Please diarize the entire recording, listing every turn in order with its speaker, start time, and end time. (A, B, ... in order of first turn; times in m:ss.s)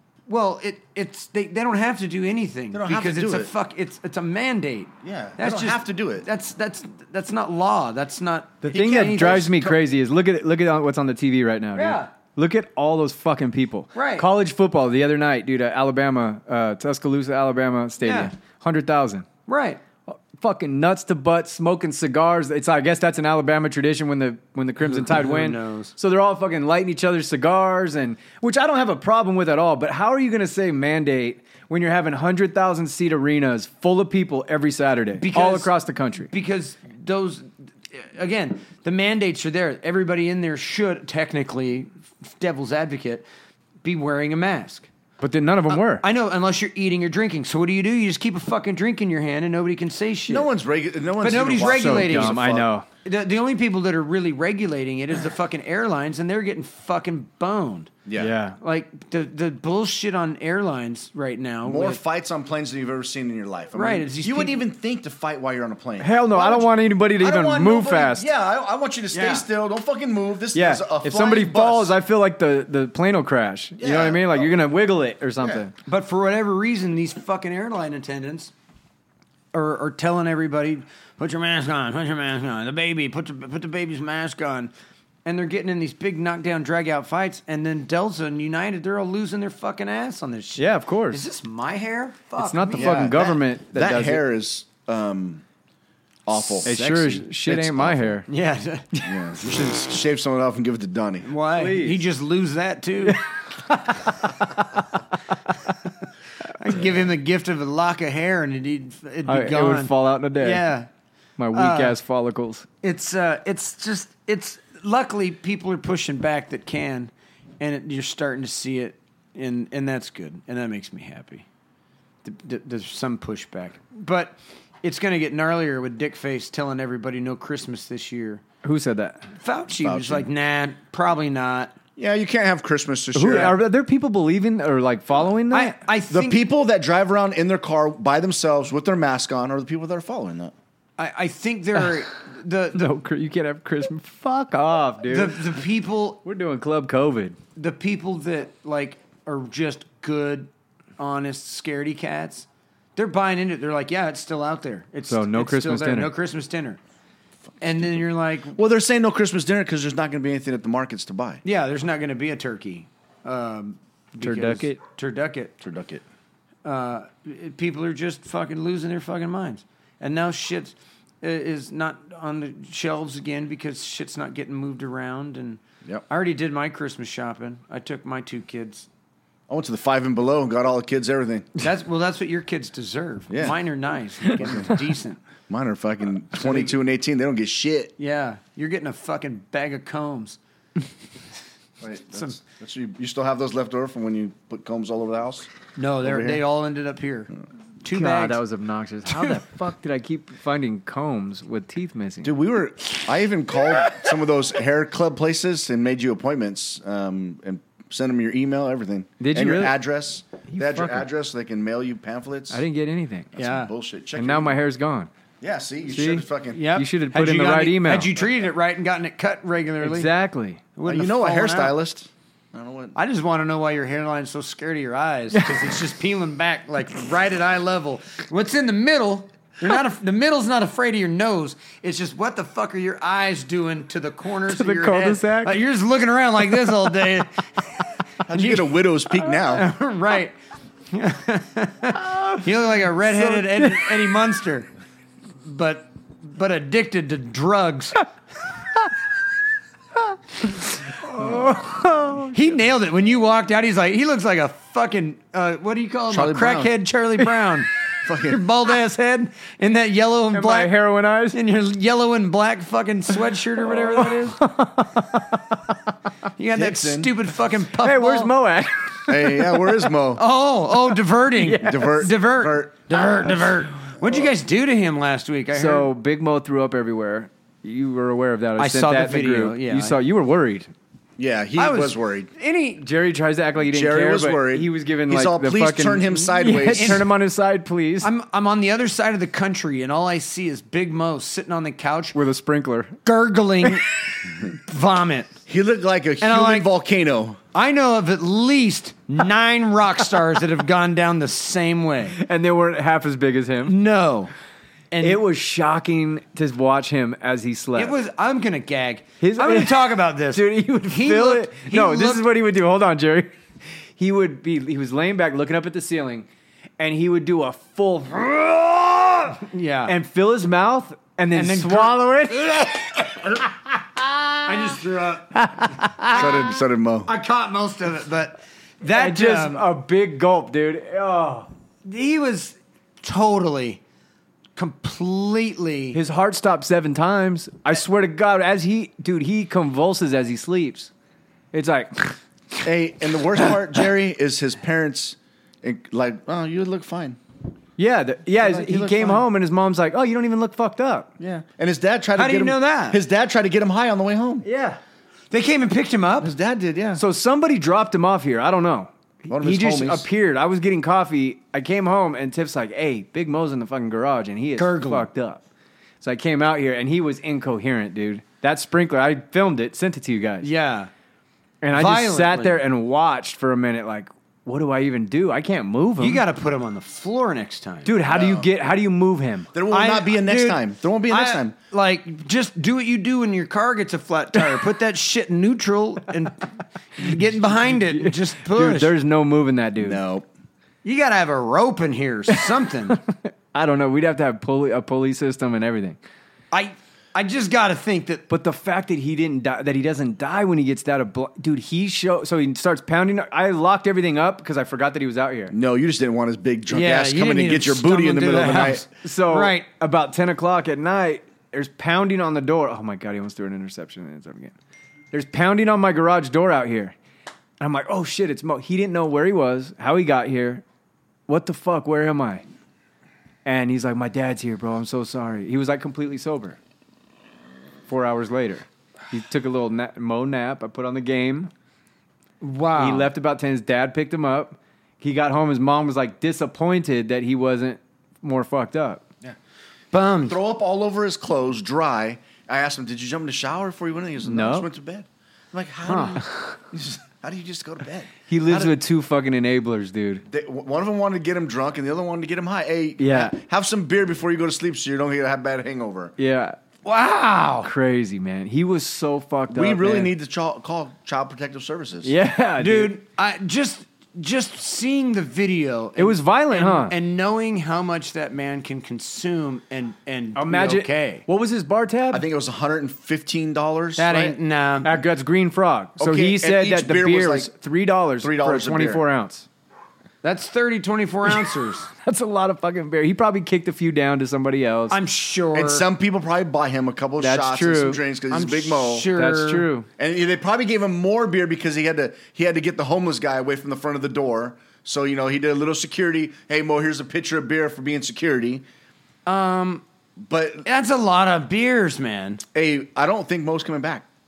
0:00.3-0:09.7 A
0:02.7-0:03.5 B
0:05.0-0:06.3 B
0:08.6-0:19.3 C
0:09.1-0:09.5 B
0:11.7-0:12.1 A
0:13.9-0:14.3 A
0:18.0-0:18.3 A
0:19.5-0:19.8 A
0:20.1-0:36.3 C
0:24.8-0:26.0 A
0:35.2-0:35.7 A
0:36.3-0:43.3 A
0:43.8-0:44.9 A
0:45.2-0:46.0 C
0:45.7-0:50.5 A
0:50.3-0:52.7 B
0:51.2-0:52.5 A
0:51.7-0:52.9 C
0:53.0-0:57.9 A
0:58.0-0:58.4 B
0:58.2-0:58.6 C
0:58.6-1:02.0 A
1:01.6-1:12.0 B
1:03.7-1:04.6 A
1:06.0-1:08.3 C
1:09.1-1:09.5 A
1:10.5-1:15.7 C
1:13.8-1:14.5 B
1:15.4-1:15.7 B
1:15.8-1:18.5 A
1:19.5-1:24.7 A
1:25.2-1:33.2 A
1:30.6-1:31.2 C
1:32.4-1:34.2 C
1:32.8-1:35.4 B
1:36.3-1:36.8 B
1:36.3-1:37.3 A
1:36.6-1:38.3 C
1:37.3-1:38.2 B
1:38.3-1:38.9 A
1:39.0-1:41.3 B
1:41.2-1:43.2 A
1:41.6-1:42.0 C
1:43.1-1:44.8 C
1:46.5-1:50.9 A
1:49.3-1:50.7 C
1:51.4-1:52.7 C
1:51.5-1:52.0 A
1:52.8-2:01.5 A
2:02.2-2:08.4 A
2:08.6-2:09.3 C
2:09.4-2:11.8 A
2:09.8-2:10.3 B
2:12.0-2:13.6 B
2:13.2-2:15.8 C
2:15.5-2:16.4 A
2:16.1-2:20.5 B
2:21.0-2:22.9 A
2:22.7-2:25.5 C
2:25.1-2:26.2 A
2:26.2-2:27.4 C
2:27.6-2:36.8 A
2:35.1-2:36.1 C
2:37.6-2:41.4 B
2:37.6-2:38.6 A
2:41.4-2:45.6 A
2:44.2-2:44.8 C
2:45.6-2:46.0 B
2:46.6-2:58.9 A
2:59.5-3:01.6 B
3:01.6-3:05.2 A
3:03.3-3:03.6 B
3:04.4-3:04.7 B
3:05.5-3:07.9 B
3:06.3-3:06.7 A
3:08.0-3:10.4 A
3:11.8-3:15.5 B
3:15.8-3:18.4 A
3:16.0-3:16.4 B
3:17.9-3:22.3 C
3:19.1-3:19.4 A
3:22.2-3:32.6 B
3:29.2-3:29.8 C
3:30.5-3:31.1 C
3:32.5-3:33.4 C
3:33.4-3:34.6 B
3:33.4-3:33.7 A
3:34.2-3:35.1 C
3:35.4-3:36.6 B
3:35.9-3:38.1 C
3:36.5-3:40.1 A
3:39.8-3:40.7 C
3:40.8-3:41.8 A
3:40.9-3:43.0 B
3:43.0-4:00.4 A
3:45.3-3:45.6 C
3:54.5-3:55.6 C
3:58.3-3:59.7 B
4:00.9-4:04.7 A
4:02.0-4:02.4 C
4:03.0-4:04.0 C
4:05.4-4:08.0 A
4:10.5-4:12.4 C
4:12.3-4:20.8 A
4:16.1-4:16.8 B
4:18.0-4:18.4 B
4:20.3-4:21.4 C
4:21.3-4:24.4 A
4:23.9-4:25.8 C
4:26.4-4:28.3 A
4:26.5-4:27.1 B
4:27.8-4:29.5 C
4:29.1-4:30.2 B
4:30.2-4:35.9 A
4:31.4-4:32.0 C
4:31.6-4:33.3 B
4:34.0-4:34.3 B
4:35.5-4:40.7 C
4:38.6-4:40.0 A
4:41.2-4:42.3 B
4:41.6-4:42.5 A
4:42.4-4:48.1 C
4:43.6-4:47.1 B
4:46.7-4:47.1 A
4:48.0-4:52.2 A
4:52.1-4:53.0 C
4:53.0-4:55.4 A
4:55.5-4:57.4 B
4:56.2-4:56.7 A
4:57.5-5:02.2 A
5:02.2-5:03.8 C
5:03.6-5:04.3 A
5:04.9-5:05.2 A
5:05.0-5:08.0 C
5:07.8-5:12.2 A
5:09.2-5:13.3 C
5:14.0-5:16.3 C
5:16.8-5:19.4 C
5:19.4-5:20.0 A
5:19.9-5:22.7 C
5:21.3-5:22.0 A
5:24.4-5:25.5 A
5:26.0-5:29.6 A
5:26.1-5:27.1 B
5:28.9-5:31.5 C
5:31.8-5:33.8 A
5:34.6-5:36.0 A
5:35.9-5:40.9 C
5:41.5-5:42.2 C
5:42.6-5:47.2 B
5:47.8-5:51.1 C
5:48.4-5:49.2 A
5:51.2-5:54.4 B
5:52.2-5:53.0 A
5:54.4-5:54.8 C
5:55.3-5:56.3 A
5:56.2-5:57.0 B
5:57.0-6:05.4 C
5:59.3-6:00.1 B
6:04.6-6:05.1 A
6:06.0-6:10.5 C
6:10.4-6:10.9 A
6:11.6-6:16.2 C
6:11.7-6:12.6 A
6:16.0-6:18.0 A
6:17.8-6:19.5 C
6:18.1-6:18.5 B
6:19.5-6:21.6 B
6:19.7-6:28.9 A
6:28.0-6:30.0 C
6:29.8-6:30.3 B
6:30.8-6:33.0 A
6:33.5-6:36.0 C
6:36.5-6:38.2 A
6:38.3-6:45.6 C
6:45.5-6:48.9 B
6:46.7-6:49.7 A
6:48.5-6:54.6 C
6:55.1-6:57.0 C
6:57.6-7:00.6 C
7:01.3-7:02.4 C
7:03.4-7:06.6 C
7:07.9-7:11.5 C
7:12.4-7:13.1 A
7:12.8-7:19.0 C
7:19.9-7:20.4 A
7:20.3-7:28.8 B
7:24.2-7:24.7 C
7:25.9-7:26.2 A
7:28.3-7:30.2 C
7:30.3-7:36.2 B
7:33.0-7:33.4 C
7:36.2-7:36.6 C
7:36.8-7:37.7 A
7:37.6-7:40.1 C
7:39.5-7:42.1 B
7:42.0-7:43.0 C
7:42.6-7:51.2 A
7:46.0-7:47.0 C
7:50.4-7:52.2 C
7:52.1-7:54.4 B
7:54.0-7:54.9 A
7:54.8-7:59.5 C
7:56.0-7:57.5 B
7:58.2-7:59.0 B
8:00.2-8:01.9 A
8:02.0-8:05.0 C
8:04.9-8:05.9 A
8:05.5-8:09.1 B
8:07.2-8:08.0 C
8:08.3-8:09.7 A
8:09.1-8:09.9 C
8:10.0-8:18.6 B
8:19.3-8:19.8 A
8:20.2-8:20.7 B
8:20.6-8:22.4 A
8:22.5-8:24.1 B